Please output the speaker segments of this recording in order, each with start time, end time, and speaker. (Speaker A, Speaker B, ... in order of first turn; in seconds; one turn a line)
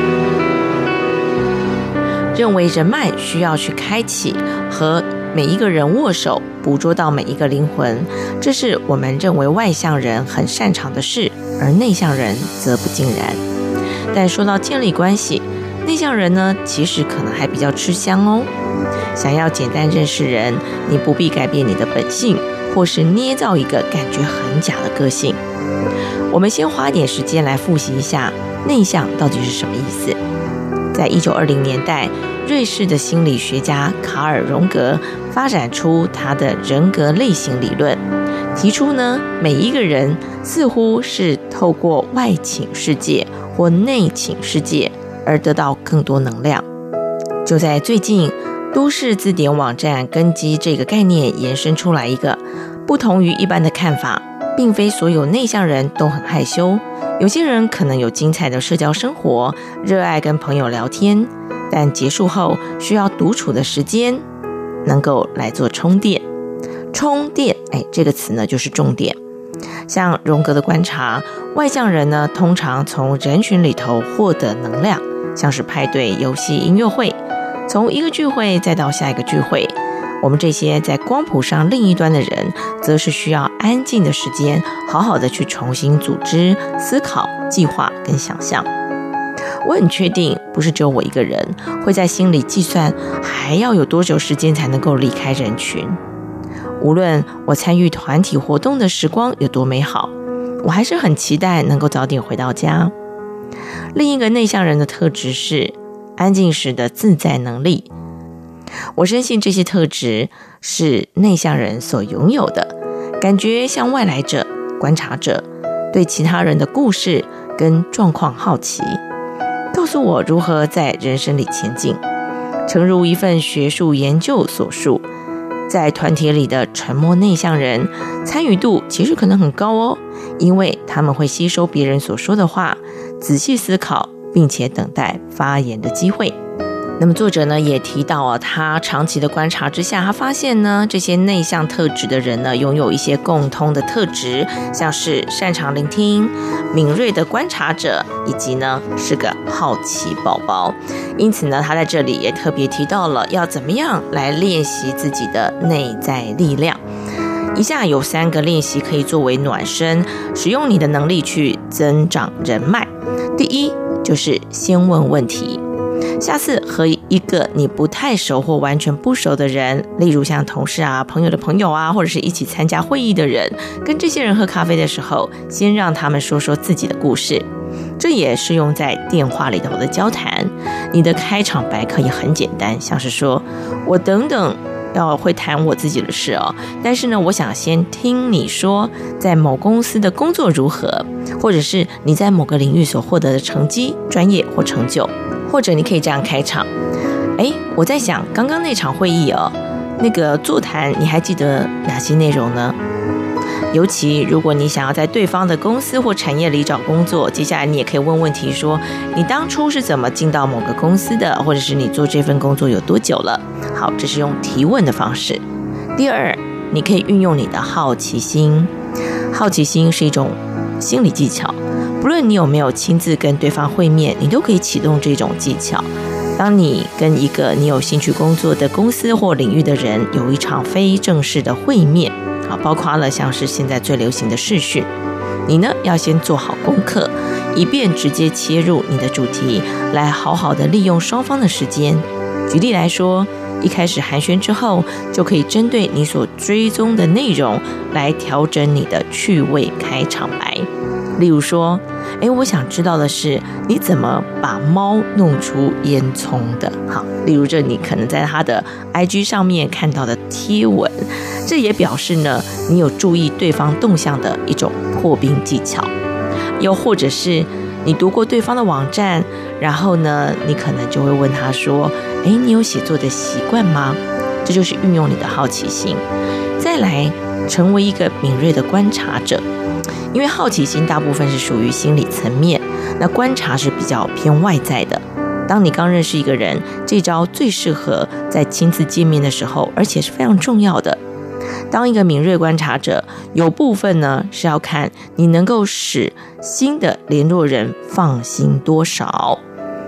Speaker A: 2.3-13.4
Speaker A: 14.1-18.5
Speaker A: 19.1-25.4
Speaker A: 26.3-30.2
Speaker A: 30.9-38.0
Speaker A: 38.5-46.7
Speaker A: 47.5-64.2
Speaker A: 64.8-66.2
Speaker A: 66.9-69.2
Speaker A: 69.9-88.7
Speaker A: 89.6-96.0
Speaker A: 96.8-102.9
Speaker A: 103.9-107.9
Speaker A: 109.0-119.0
Speaker A: 119.7-122.0
Speaker A: 122.7-125.1
Speaker A: 125.7-136.4
Speaker A: 137.0-156.8
Speaker A: 157.5-165.6
Speaker A: 166.2-177.5
Speaker A: 178.0-196.7
Speaker A: 197.4-202.8
Speaker A: 203.7-215.4
Speaker A: 216.0-218.7
Speaker A: 219.3-234.9
Speaker A: 235.5-265.9
Speaker A: 266.6-276.0
Speaker A: 276.6-279.4
Speaker A: 280.1-291.0
Speaker A: 291.7-299.4